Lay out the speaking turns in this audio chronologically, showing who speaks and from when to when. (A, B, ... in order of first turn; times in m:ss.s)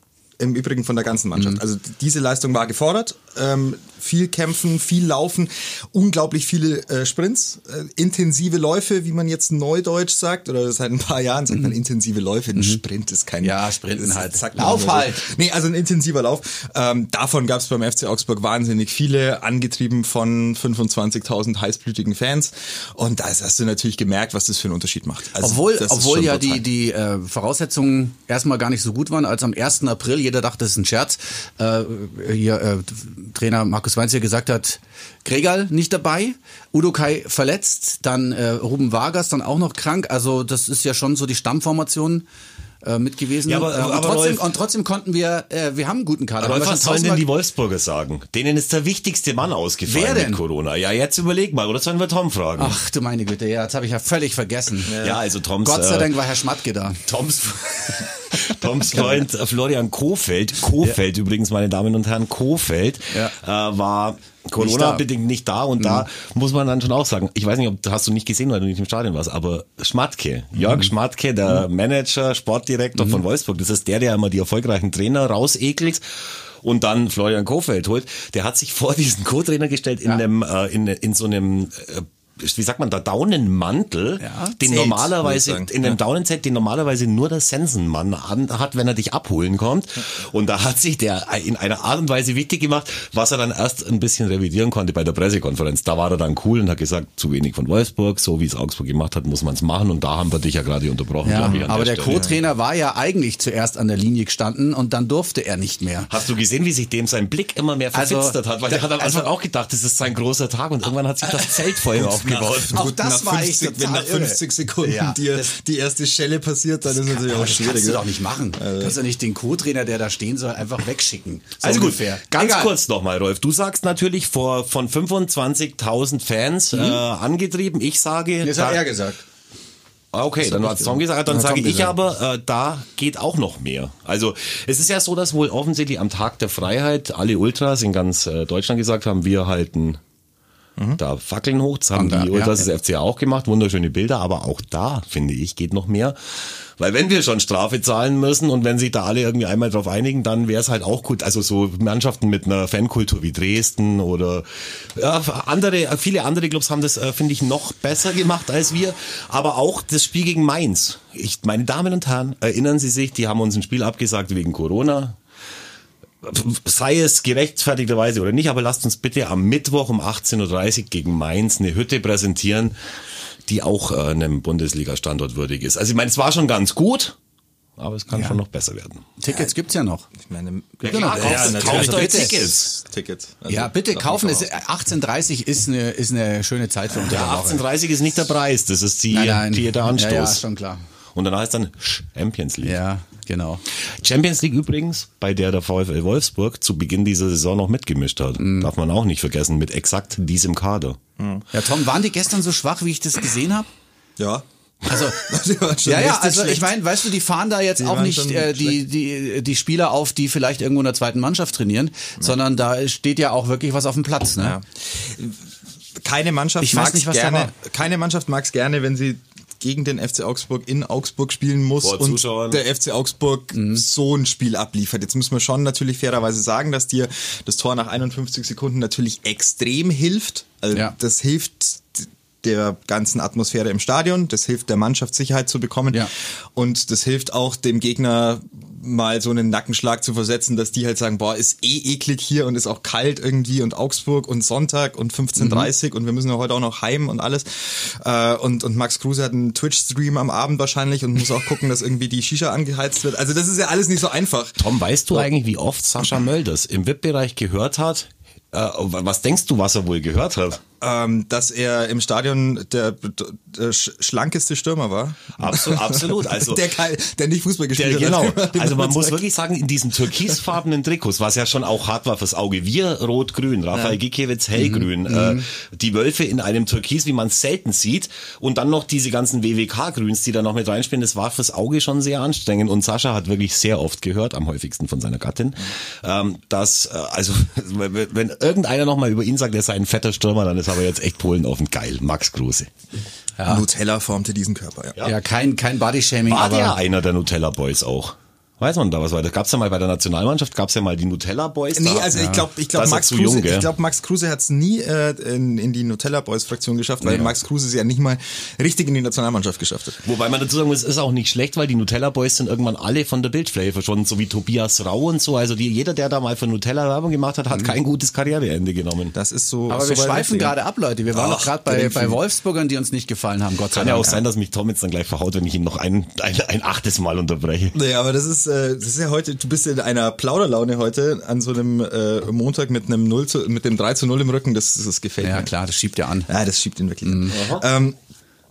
0:00.4-0:26.6 A
0:12.5-0:12.8 B
0:13.4-0:15.2 B
0:25.4-0:42.2 B
0:42.8-0:47.2 B
0:43.4-0:44.5 C
0:46.4-0:52.8 C
0:49.8-0:50.4 B
0:52.6-0:55.0 B
0:54.8-0:55.2 A
0:55.0-0:56.2 C
0:55.6-0:57.1 B
0:57.0-1:42.2 C
0:58.9-0:59.2 B
1:04.6-1:05.0 B
1:05.8-1:06.0 B
1:24.2-1:24.6 B
1:24.6-1:26.0 A
1:41.2-1:46.1 B
1:41.4-1:42.4 A
1:46.1-1:52.8 C
1:47.9-1:48.4 B
1:49.0-1:49.3 A
1:51.3-1:59.0 A
1:52.7-1:55.5 B
1:56.9-2:02.7 B
2:01.6-2:08.8 C
2:06.7-2:07.0 B
2:08.4-2:09.2 B
2:10.1-2:20.0 C
2:10.4-2:11.9 A
2:21.0-2:45.2 C
2:21.9-2:22.6 B
2:46.2-2:52.7 C
2:53.4-2:57.2 C
2:57.8-2:59.1 C
2:58.1-2:58.4 B
2:59.2-3:00.1 B
3:00.2-3:04.5 A
3:00.8-3:02.4 B
3:00.8-3:02.7 C
3:03.5-3:07.6 B
3:07.0-3:10.4 C
3:09.1-3:10.8 B
3:11.1-3:12.8 C
3:12.6-3:13.6 B
3:13.9-3:21.0 C
3:18.4-3:18.7 B
3:21.2-3:21.4 A
3:21.5-3:23.7 B
3:24.2-3:26.8 A
3:24.8-3:25.2 B
3:25.8-3:34.6 B
3:27.8-3:28.8 A
3:34.4-3:35.4 A
3:36.0-4:14.6 A
3:36.6-3:37.5 B
3:41.8-3:42.6 C
3:43.5-3:43.8 B
4:05.4-4:05.7 B
4:14.6-4:20.6 C
4:20.8-4:29.2 A
4:25.4-4:26.6 C
4:27.8-4:52.7 C
4:33.7-4:34.0 A
4:34.6-4:35.4 B
4:53.4-4:55.0 A
4:55.0-4:56.8 B
4:56.3-5:02.1 C
5:01.7-5:10.0 A
5:02.1-5:02.4 B
5:02.7-5:03.7 C
5:10.0-5:19.1 C
5:19.1-5:20.5 A
5:19.7-5:24.2 B
5:21.1-5:22.2 A
5:23.7-5:27.7 C
5:23.9-5:24.2 A
5:27.7-5:35.5 A
5:35.2-5:36.3 B
5:36.3-5:38.0 A
5:37.0-5:37.3 B
5:37.3-5:37.6 C